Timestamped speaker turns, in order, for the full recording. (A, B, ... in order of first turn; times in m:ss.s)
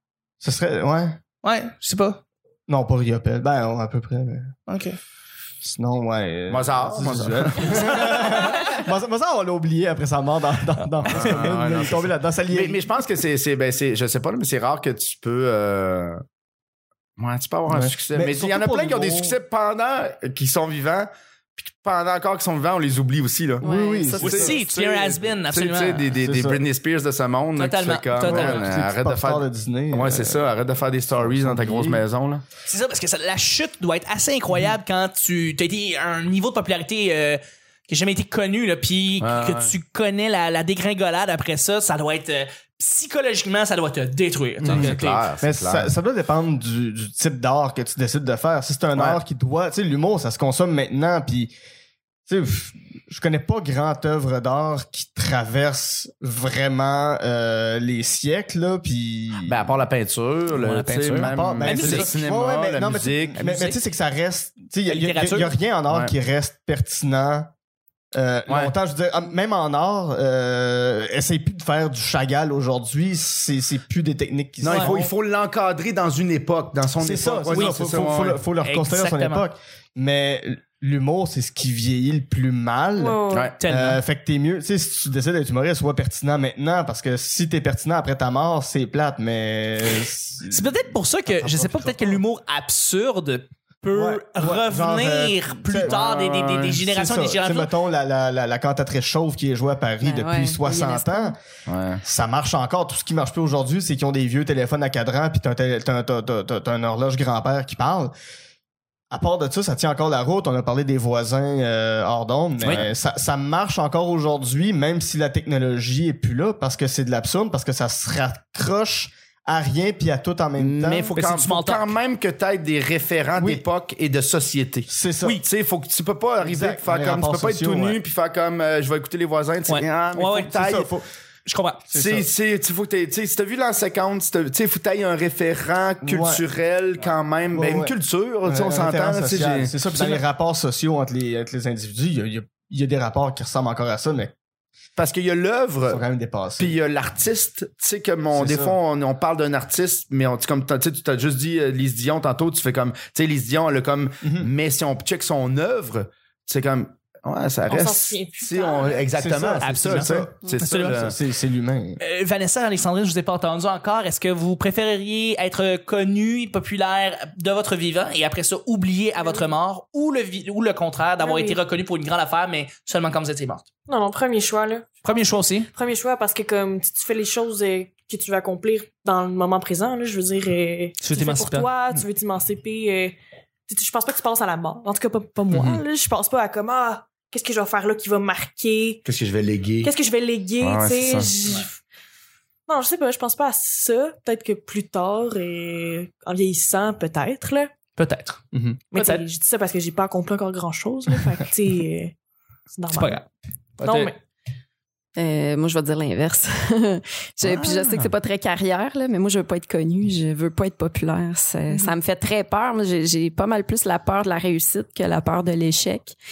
0:00.4-0:01.2 A
0:01.4-0:02.2 B
0:02.7-0:04.5 A
0:04.7-0:05.0 B
0:05.6-0:12.8 A
0:06.5-0:08.2 C
0:07.6-0:08.7 B
0:11.0-0:11.4 B
0:11.0-0:16.2 C
0:17.2-0:23.7 C
0:17.7-0:19.4 A
0:23.6-0:24.5 D
0:23.6-0:24.6 A
0:24.2-0:26.1 B
0:24.2-0:32.4 C
0:26.2-0:26.6 A
0:27.6-0:28.7 B
0:28.2-0:30.5 A
0:31.1-0:32.1 A
0:32.6-0:45.3 B
0:39.2-0:39.8 C
0:44.6-0:51.5 A
0:44.6-0:45.9 C
0:49.0-0:49.2 C
0:52.3-0:59.8 A
0:59.4-1:03.4 C
1:00.5-1:02.1 B
1:01.1-1:07.5 A
1:03.4-1:03.8 B
1:04.9-1:05.6 B
1:05.9-1:06.1 C
1:08.2-1:15.1 A
1:08.5-1:08.7 C
1:14.6-1:18.4 C
1:14.7-1:15.0 B
1:17.0-1:32.2 A
1:17.5-1:17.8 B
1:18.6-1:19.5 B
1:23.0-1:23.5 E
1:23.3-1:23.6 C
1:23.6-1:24.0 B
1:30.5-1:37.7 B
1:33.9-1:36.0 A
1:35.8-1:36.8 C
1:36.7-1:41.4 A
1:40.0-1:41.4 D
1:41.7-1:42.0 C
1:42.0-1:48.1 A
1:49.1-2:01.1 A
1:52.6-1:52.9 B
2:00.6-2:04.9 C
2:01.0-2:01.9 B
2:03.4-2:03.6 A
2:04.9-2:05.4 A
2:05.4-2:10.9 C
2:06.4-2:08.0 A
2:09.7-2:10.5 B
2:10.4-2:11.1 A
2:11.5-2:11.8 B
2:11.9-2:12.3 A
2:11.9-2:19.8 C
2:16.0-2:16.4 A
2:17.5-2:24.3 A
2:25.0-2:26.0 C
2:25.9-2:26.8 A
2:26.6-2:41.2 C
2:28.3-2:28.8 A
2:37.7-2:39.1 E
2:39.1-2:42.0 A
2:39.6-2:41.2 B
2:42.0-2:53.7 B
2:51.2-2:51.6 E
2:53.9-2:55.0 E
2:55.0-2:55.7 B
2:55.8-3:03.2 E
3:01.0-3:02.0 B
3:03.7-3:09.0 E
3:05.5-3:05.8 C
3:09.0-3:09.9 C
3:09.8-3:11.7 E
3:10.6-3:11.3 C
3:12.7-3:17.8 E
3:18.0-3:19.2 B
3:18.9-3:22.2 E
3:22.8-3:23.2 E
3:22.9-3:23.2 B
3:23.8-3:24.1 B
3:23.8-3:24.1 E
3:25.2-3:36.2 D